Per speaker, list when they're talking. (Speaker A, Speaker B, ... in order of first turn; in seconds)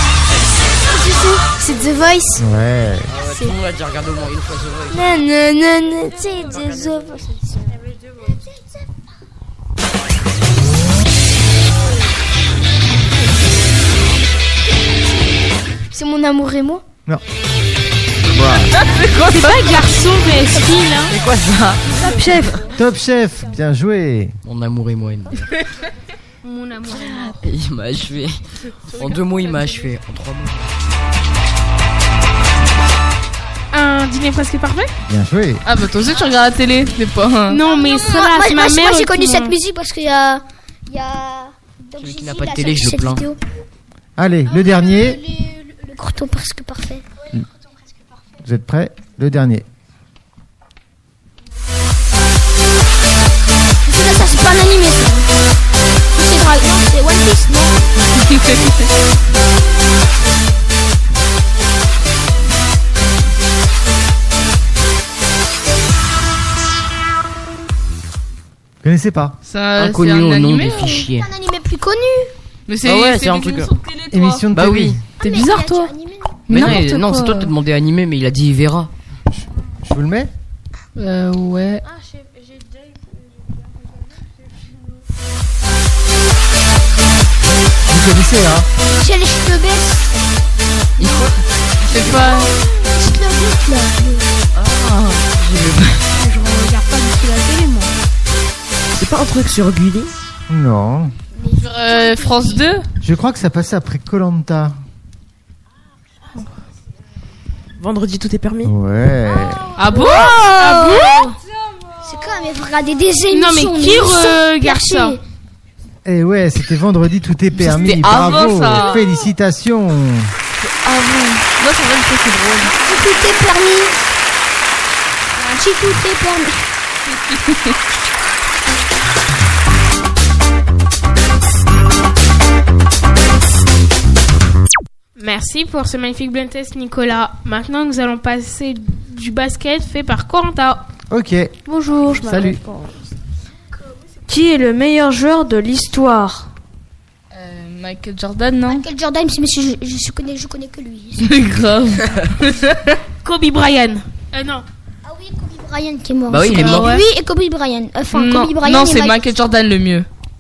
Speaker A: 0.8-2.4, 4.9-7.4, 15.9-16.8
Speaker B: 2.4-3.1, 22.7-24.4, 35.1-35.6, 44.2-45.2, 48.4-49.6, 68.8-69.3, 74.1-75.0, 79.8-80.3, 87.9-88.7, 100.5-101.1, 103.0-104.8, 108.6-109.7, 116.0-120.3, 141.1-141.6, 142.1-142.6
Speaker C: 3.1-5.2, 6.4-7.2, 18.3-18.7, 21.1-22.3, 24.4-25.6, 26.9-30.8, 42.0-43.3, 69.8-71.3, 72.8-73.7, 74.5-75.0, 76.5-78.9, 91.0-92.1, 94.5-96.1, 156.3-157.0
Speaker D: 18.8-20.0, 28.9-29.8, 35.6-37.6, 69.4-71.1, 72.7-74.5, 75.2-75.9, 76.5-77.5, 81.0-81.8, 91.9-92.5, 101.6-102.9, 109.8-111.0, 117.5-119.0, 120.6-122.8, 147.3-148.8, 151.2-153.0, 158.1-160.1
Speaker E: 19.2-21.1, 26.4-27.4, 33.7-34.9, 37.5-39.5, 96.1-97.9, 109.9-111.3, 113.3-115.2, 135.2-140.9, 153.2-154.7, 156.5-157.1
Speaker F: 22.0-22.6, 141.7-142.9, 144.3-146.5
Speaker G: 37.7-43.4, 45.0-47.0, 53.8-55.3, 56.1-57.8, 71.1-72.3, 75.2-76.4, 88.9-90.1, 91.9-94.3, 101.3-102.6, 110.8-111.3, 112.0-115.2, 122.8-124.0, 125.4-126.7, 148.7-151.4, 155.0-159.3
Speaker H: 98.9-100.1, 107.8-108.7